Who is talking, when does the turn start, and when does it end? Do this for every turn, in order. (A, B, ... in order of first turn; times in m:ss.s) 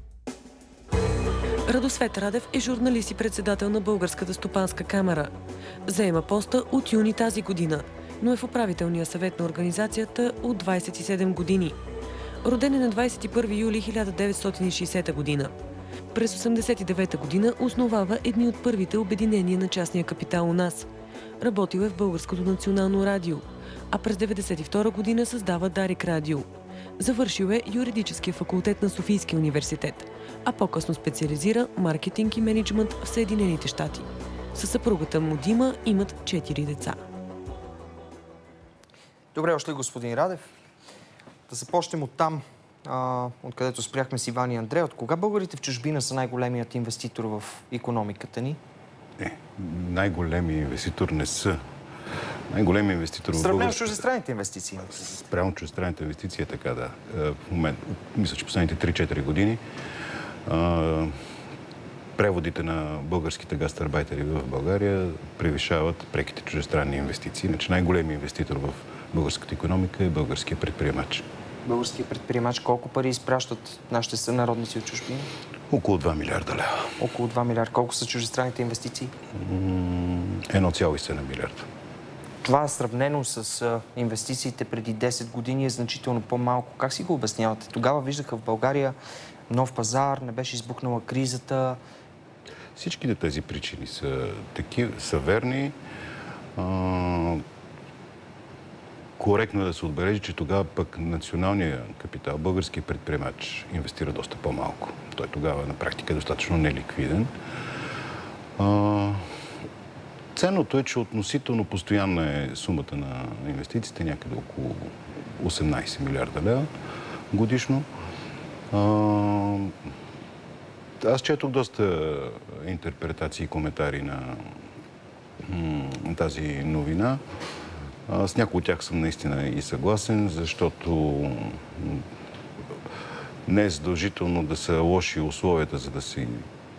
0:01.7-0:05.3 A
0:05.8-0:11.8 A
0:12.4-0:15.5 A
0:16.1-0:20.9 A
0:21.4-0:26.5 A
0:27.0-0:37.0 A
0:39.3-0:40.5 B
0:41.5-0:48.6 B
0:49.2-0:51.6 C
0:52.5-0:54.0 C
0:53.3-0:55.1 B
0:55.0-0:59.6 C
1:00.4-1:01.2 C
1:02.2-1:11.2 C
1:11.6-1:15.3 B
1:15.7-1:16.9 C
1:17.0-1:19.1 B
1:19.4-1:21.6 C
1:22.4-1:29.0 B
1:29.5-1:31.8 B
1:32.8-1:35.8 C
1:36.6-1:37.4 C
1:39.2-1:47.3 C
1:48.6-1:49.2 C
1:50.3-1:56.7 C
1:57.3-1:57.9 C
1:58.7-1:59.7 C
2:01.0-2:04.5 C
2:05.4-2:07.2 C
2:08.1-2:12.0 C
2:13.4-2:16.4 C